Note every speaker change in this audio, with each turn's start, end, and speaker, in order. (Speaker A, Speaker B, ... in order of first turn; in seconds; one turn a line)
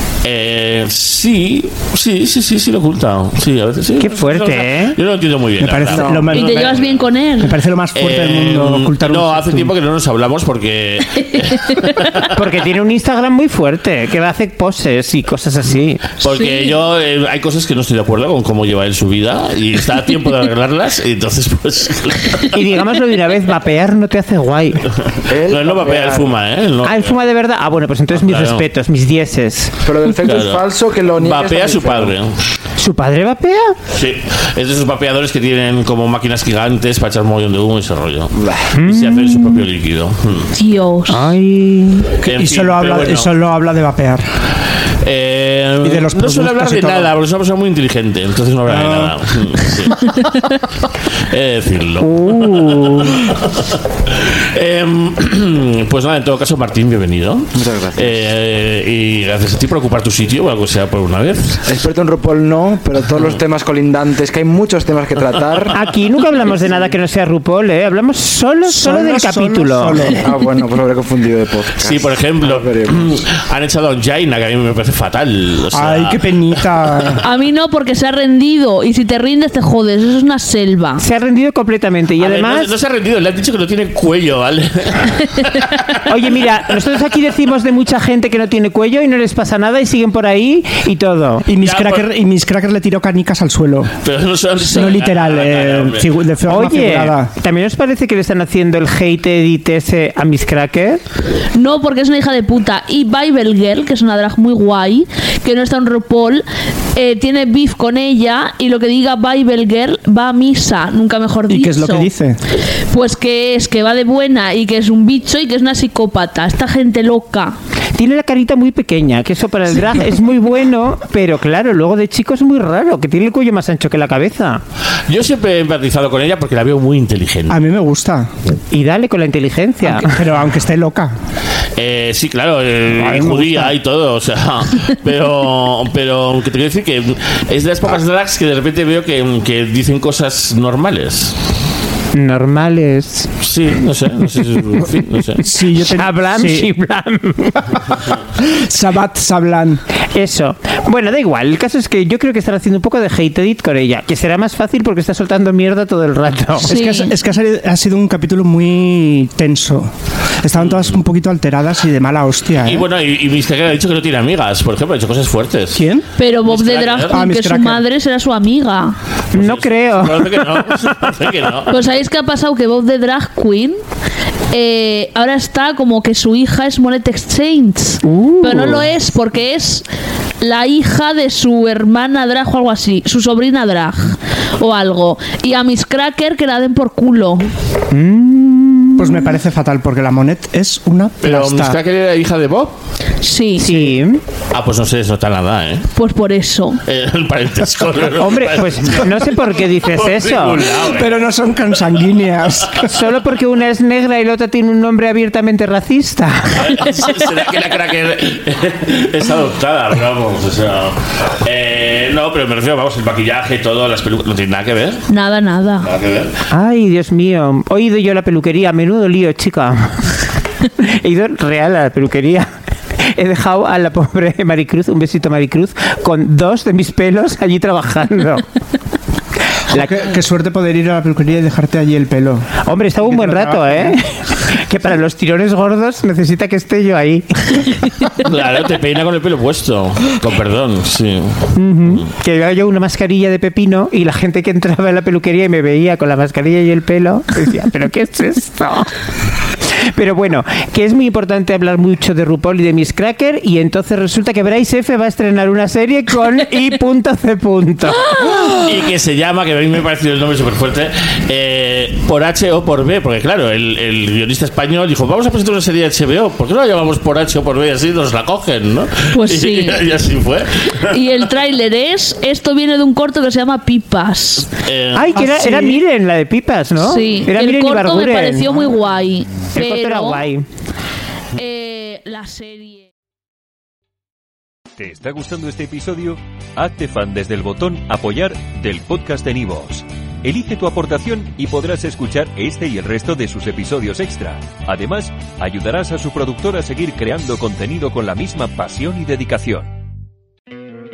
Speaker A: 0.2-7.1
Speaker B: 4.0-5.0
Speaker C: 5.6-6.8
Speaker D: 5.9-6.3
Speaker E: 6.2-7.5
Speaker C: 7.4-9.7
Speaker A: 7.9-12.4
Speaker E: 11.4-12.0
Speaker B: 12.3-16.1
Speaker A: 16.2-22.5
Speaker E: 16.3-16.8
Speaker B: 22.5-24.8
Speaker D: 25.3-26.4
Speaker A: 25.4-27.2
Speaker B: 26.8-29.8
Speaker A: 28.1-28.7
Speaker D: 29.8-32.2
Speaker A: 30.1-32.4
Speaker B: 32.8-33.8
Speaker A: 33.9-38.3
Speaker D: 38.4-38.7
Speaker B: 38.8-39.6
Speaker A: 38.8-40.5
Speaker E: 40.5-41.3
Speaker B: 41.1-42.1
Speaker A: 42.2-43.3
Speaker C: 42.2-44.2
Speaker A: 45.0-50.1
Speaker C: 45.8-47.1
Speaker C: 48.7-49.2
Speaker A: 51.2-61.6
Speaker B: 52.0-53.1
Speaker D: 57.6-58.2
Speaker D: 61.7-65.8
Speaker B: 65.7-70.1
Speaker C: 68.7-70.2
Speaker D: 70.2-73.2
Speaker A: 71.7-77.1
Speaker C: 75.7-77.2
Speaker E: 77.2-81.0
Speaker B: 81.0-82.7
Speaker A: 82.2-86.5
Speaker B: 86.1-91.5
Speaker C: 91.5-93.9
Speaker A: 91.6-92.1
Speaker A: 94.0-96.2
Speaker C: 94.6-97.3
Speaker B: 96.5-101.0
Speaker E: 101.5-112.1
Speaker C: 111.5-112.4
Speaker E: 112.9-117.5
Speaker B: 118.0-124.6
Speaker A: 125.1-127.6
Speaker C: 127.5-128.3
Speaker B: 128.7-130.1
Speaker C: 129.8-131.1
Speaker A: 131.8-141.4
Speaker C: 132.9-133.8
Speaker B: 142.1-143.3
Speaker A: 143.4-145.4
Speaker C: 145.4-146.7
Speaker B: 145.8-147.9
Speaker C: 148.5-149.8
Speaker B: 150.1-156.8
Speaker E: 156.6-157.1
Speaker C: 156.6-159.9
Speaker C: 160.4-162.9
Speaker A: 160.6-161.0
Speaker A: 162.7-165.8
Speaker C: 165.7-166.1
Speaker E: 166.2-169.0
Speaker A: 166.4-167.2
Speaker C: 167.1-167.8
Speaker B: 169.3-170.6
Speaker A: 169.3-171.8
Speaker E: 171.7-173.8
Speaker E: 174.5-179.9
Speaker B: 178.0-178.9
Speaker E: 180.4-187.4
Speaker B: 187.9-189.3
Speaker C: 189.0-191.8
Speaker A: 191.2-192.8
Speaker E: 193.2-193.7
Speaker B: 193.6-194.2
Speaker A: 194.5-195.9
Speaker E: 195.9-196.8
Speaker A: 196.9-201.3
Speaker B: 198.2-200.6
Speaker C: 200.8-202.9
Speaker B: 202.8-206.6
Speaker A: 206.5-215.1
Speaker E: 215.1-215.9
Speaker A: 215.8-216.3
Speaker B: 216.5-220.2
Speaker B: 220.8-228.5
Speaker C: 229.7-232.5
Speaker B: 232.7-237.8
Speaker C: 233.0-234.0
Speaker A: 238.2-242.1
Speaker B: 241.6-248.9
Speaker B: 249.8-258.1
Speaker A: 258.2-271.3
Speaker E: 269.1-269.9
Speaker E: 270.9-274.5
Speaker A: 274.5-275.2
Speaker B: 274.9-278.6
Speaker C: 275.1-275.8
Speaker E: 276.8-280.2
Speaker B: 279.5-280.4
Speaker E: 281.4-282.9
Speaker F: 284.8-299.7